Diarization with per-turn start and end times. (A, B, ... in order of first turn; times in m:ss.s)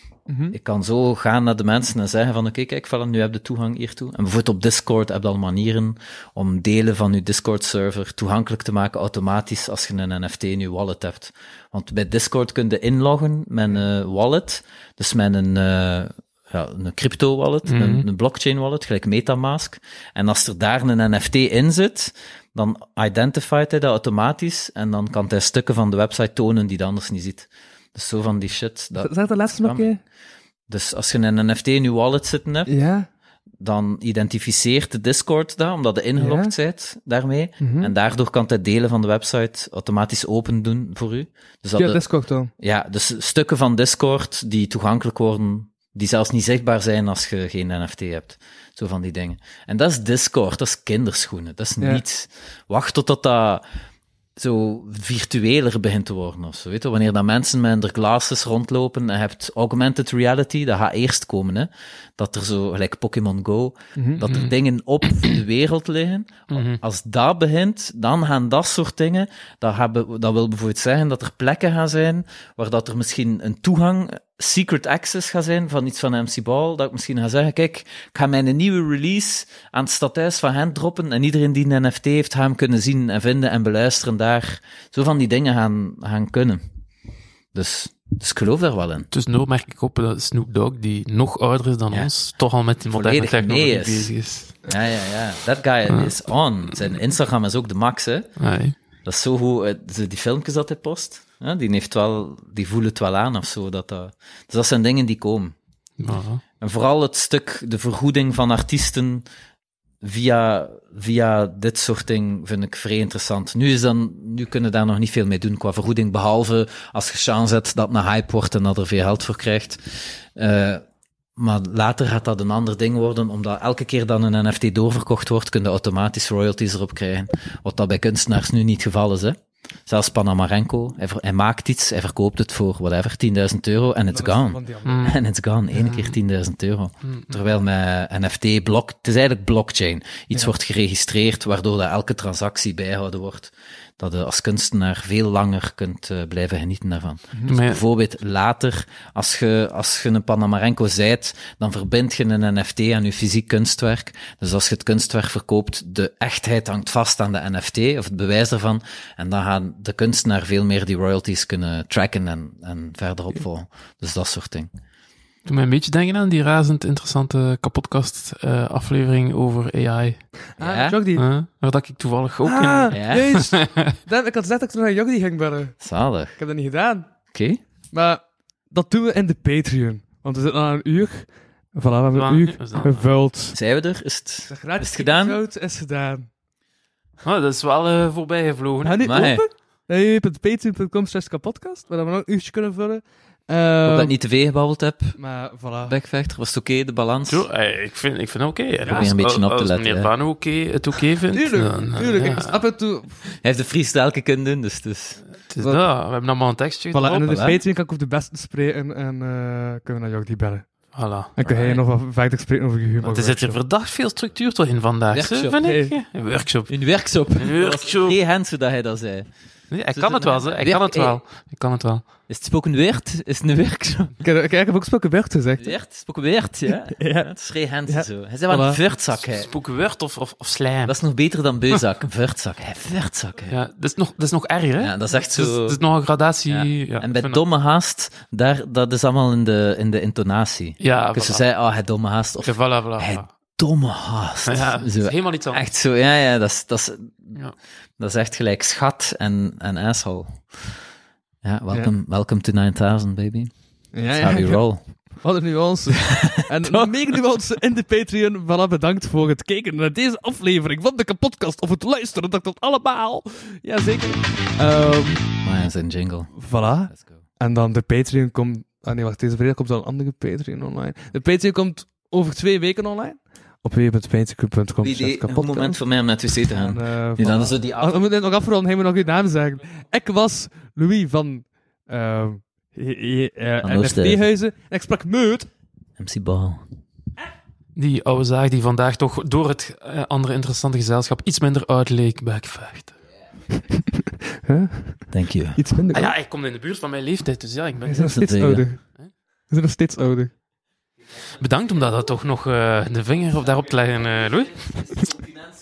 0:00.3-0:00.6 A
0:00.5-0:29.9 B
0:17.7-0:18.0 C
0:29.0-0:30.0 A
0:30.7-0:32.7 B
0:32.7-0:33.1 A
0:33.6-0:42.0 B
0:36.2-0:36.5 A
0:37.6-0:37.9 A
0:41.8-0:42.5 A
0:42.6-0:53.6 B
0:54.4-1:26.6 B
1:04.0-1:04.2 A
1:04.3-1:04.5 C
1:06.5-1:06.8 C
1:27.5-1:29.1 B
1:29.1-1:34.6 C
1:32.9-1:34.1 B
1:34.7-1:38.3 B
1:38.4-1:38.8 C
1:39.0-1:45.6 B
1:46.0-1:46.4 C
1:46.6-1:49.2 B
1:50.0-2:00.8 B
2:01.4-2:44.7 B
2:14.1-2:15.2 A
2:14.9-2:15.2 C
2:17.1-2:17.4 C
2:27.5-2:27.8 C
2:45.4-2:50.3 C
2:50.6-2:51.2 A
2:50.6-2:51.0 B
2:51.2-2:53.9 C
2:52.4-2:55.8 A
2:52.9-2:53.4 B
2:55.8-2:56.4 B
2:56.4-2:57.1 A
2:57.3-2:57.6 B
2:57.9-3:03.6 A
3:02.2-3:03.1 C
3:03.5-3:05.4 B
3:04.5-3:06.3 A
3:07.2-3:09.3 C
3:08.8-3:14.1 A
3:09.0-3:09.4 B
3:13.9-3:15.2 B
3:15.2-3:16.0 A
3:15.9-3:17.5 B
3:17.3-3:22.6 C
3:18.8-3:19.1 A
3:18.9-3:20.1 B
3:21.3-3:23.2 A
3:23.4-3:25.2 B
3:25.5-3:27.4 C
3:26.9-3:33.6 A
3:27.2-3:27.6 B
3:30.9-3:31.8 C
3:33.0-3:38.2 C
3:35.1-3:35.6 B
3:35.6-3:35.9 A
3:36.7-3:39.3 B
3:39.7-3:42.0 C
3:39.9-3:41.2 B
3:42.3-3:44.2 B
3:44.2-3:45.8 A
3:45.6-3:49.5 B
3:47.0-3:47.3 A
3:47.9-3:48.8 A
3:49.2-3:51.0 C
3:50.8-3:53.6 B
3:53.5-3:57.4 C
3:54.8-3:55.8 B
3:56.5-4:07.4 B
4:00.8-4:01.4 C
4:02.4-4:03.3 C
4:04.5-4:05.6 C
4:08.0-4:10.7 B
4:11.4-4:13.5 B
4:13.9-4:25.3 A
4:14.1-4:14.8 B
4:16.0-4:17.0 B
4:25.4-4:27.2 B
4:26.4-4:35.8 A
4:34.8-4:37.9 B
4:36.5-4:45.5 A
4:43.6-4:44.2 B
4:46.0-4:46.6 B
4:47.8-4:53.0 C
4:53.9-4:56.1 A
4:55.1-4:55.6 B
4:55.9-4:58.2 C
4:57.9-4:58.8 A
4:58.0-4:58.7 B
4:59.5-5:00.3 A
5:01.4-5:05.0 C